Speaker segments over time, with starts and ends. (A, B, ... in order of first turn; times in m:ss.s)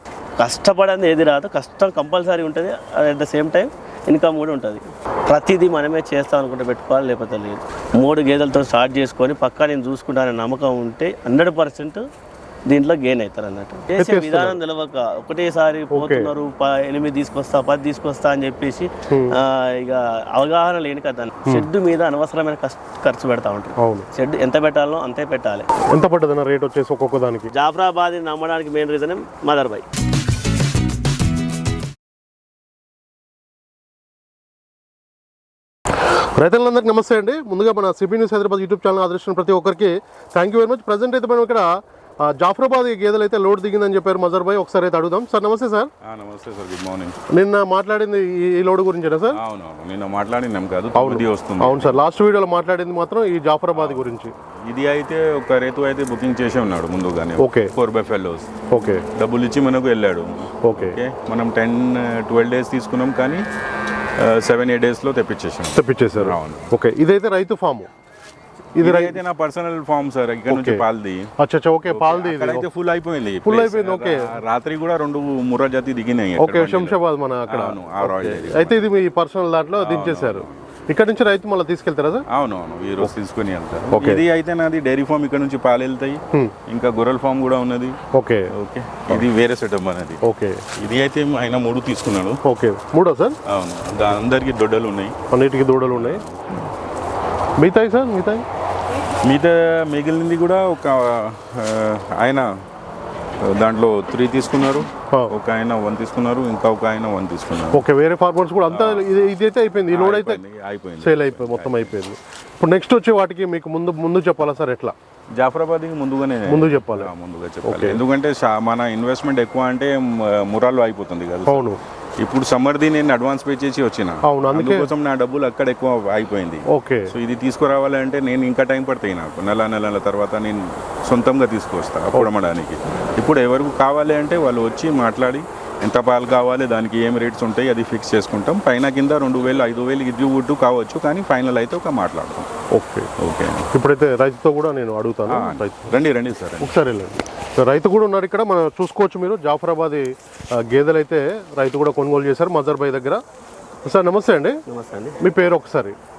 0:00.4-0:12.0 A
0:12.7-0:25.7 A
0:14.0-0:14.6 B
0:15.9-0:16.3 B
0:19.1-0:19.4 B
0:23.8-0:24.0 B
0:25.9-0:27.5 B
0:27.5-0:29.8 A
0:36.4-0:41.7 B
0:42.2-0:45.9 B
0:46.1-0:47.2 C
0:47.3-0:49.4 B
0:49.4-0:52.0 C
0:51.0-0:54.3 B
0:53.7-0:58.5 C
0:57.4-0:57.7 B
0:58.7-0:59.0 B
0:59.2-1:03.4 C
1:00.6-1:01.0 B
1:04.2-1:06.7 C
1:05.7-1:07.9 B
1:08.8-1:09.2 B
1:08.8-1:11.3 C
1:10.5-1:10.8 B
1:11.4-1:12.7 B
1:11.9-1:18.9 C
1:13.4-1:14.3 B
1:16.4-1:22.2 B
1:19.8-1:20.6 C
1:22.3-1:28.0 C
1:23.9-1:24.2 B
1:28.2-1:28.5 B
1:28.6-1:30.2 C
1:30.2-1:30.6 B
1:30.8-1:32.4 C
1:32.4-1:33.4 B
1:33.5-1:35.1 C
1:35.3-1:36.2 B
1:35.9-1:36.6 C
1:37.6-1:38.4 B
1:39.2-1:42.5 C
1:43.4-1:47.8 C
1:47.7-1:50.4 B
1:48.7-1:49.1 C
1:49.9-1:52.0 C
1:51.0-1:55.0 B
1:55.4-2:22.5 C
1:56.5-1:57.1 B
1:57.6-1:58.0 B
2:01.5-2:01.8 B
2:04.2-2:04.9 B
2:06.7-2:07.1 B
2:22.7-2:23.1 B
2:23.2-2:23.7 C
2:23.7-2:25.9 B
2:25.3-2:26.8 C
2:26.6-2:30.0 B
2:30.6-2:33.2 B
2:33.9-2:34.6 B
2:34.7-2:35.2 A
2:35.2-2:35.9 B